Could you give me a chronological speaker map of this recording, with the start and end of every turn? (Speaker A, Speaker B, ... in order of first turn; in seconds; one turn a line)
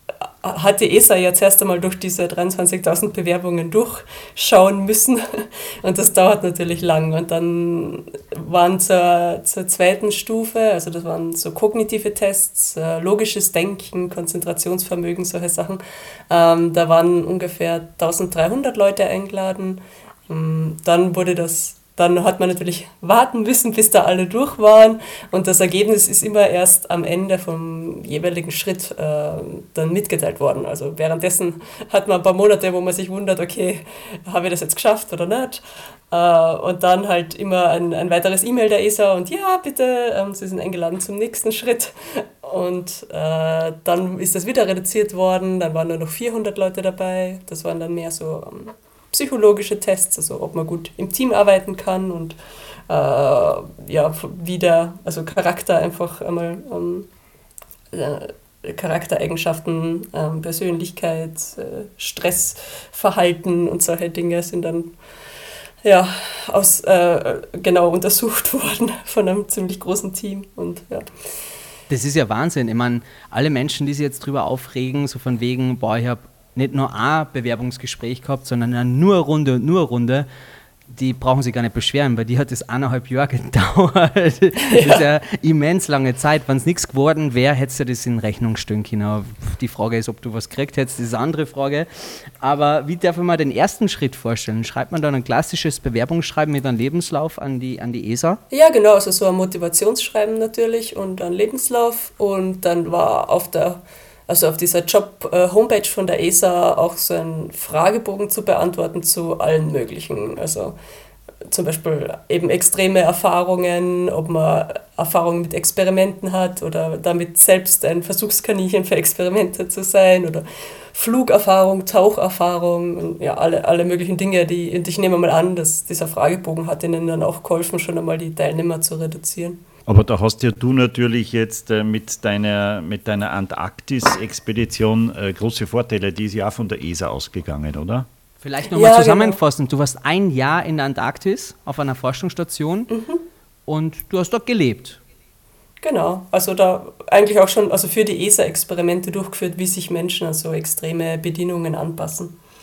Speaker A: 0.4-52.4
Speaker A: 52.9-57.1
Speaker A: 57.9-65.0
Speaker A: 65.8-71.1
Speaker B: 71.9-80.3
Speaker B: 80.9-98.4
Speaker A: 84.7-85.1
Speaker A: 98.5-110.8
Speaker A: 111.5-129.6
Speaker C: 129.8-138.1
Speaker B: 138.4-142.9
Speaker A: 138.7-139.4
Speaker A: 142.9-143.2
Speaker B: 143.7-145.0
Speaker A: 145.8-152.3